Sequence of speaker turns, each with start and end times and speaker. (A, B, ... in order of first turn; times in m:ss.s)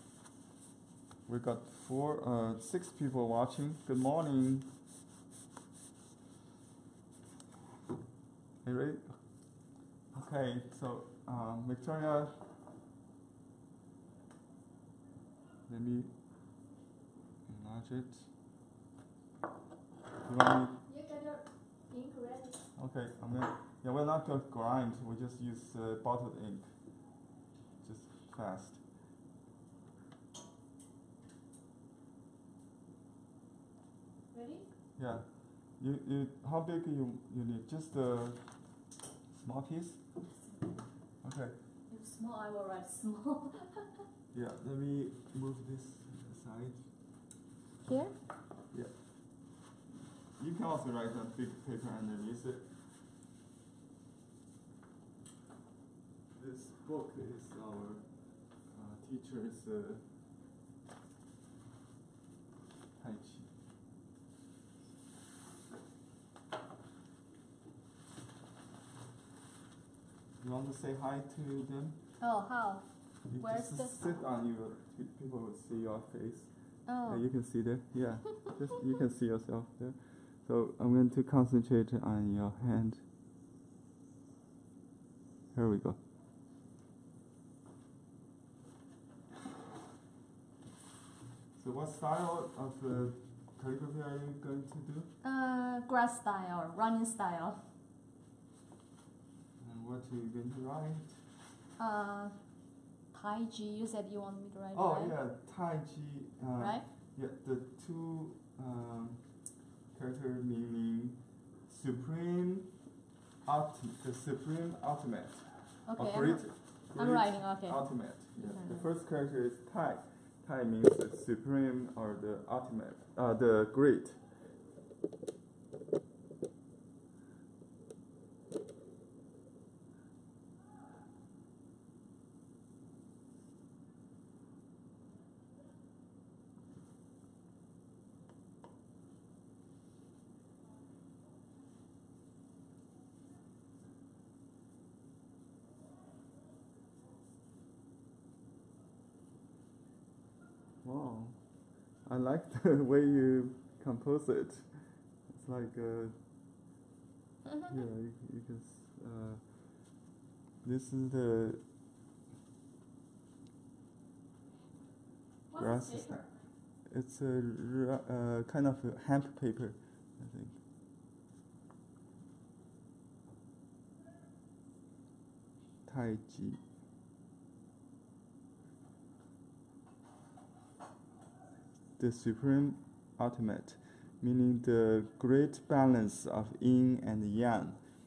0:01.2-0:04.7 A
0:08.6-0:12.4 A
0:15.7-0:16.1 A
0:17.5-0:18.3 A
0:20.2-0:20.8 A
0:20.8-0:22.6 B
0:22.8-0:26.8 A
0:27.8-0:28.8 A
0:34.3-0:34.7 B
0:35.0-0:38.8 A
0:39.4-0:40.0 A
0:40.4-0:40.8 B
0:41.2-0:41.6 A
0:41.9-0:44.0 B
0:44.3-0:46.9 A
0:47.8-0:48.2 B
0:48.7-0:49.5 A
0:50.4-0:52.7 A
0:56.3-1:00.1 A
1:03.0-1:03.5 A
1:10.4-1:12.0 A
1:12.2-1:12.8 B
1:13.3-1:23.0 A
1:13.3-1:14.0 B
1:16.8-1:17.2 B
1:25.5-1:26.0 A
1:31.5-1:35.1 A
1:35.2-1:37.6 B
1:39.6-1:41.2 A
1:41.8-1:42.4 B
1:43.1-1:45.2 B
1:44.7-1:52.8 A
1:46.6-1:46.8 B
1:53.4-2:04.2 A
1:55.9-1:58.8 B
2:30.8-2:31.4 A
2:32.0-2:36.2 A
2:37.7-2:39.8 A
2:40.6-2:41.6 A
2:45.5-2:46.4 B
2:45.5-2:46.2 A
2:46.8-2:50.6 A
2:55.8-2:56.6 A
3:02.0-3:07.8 A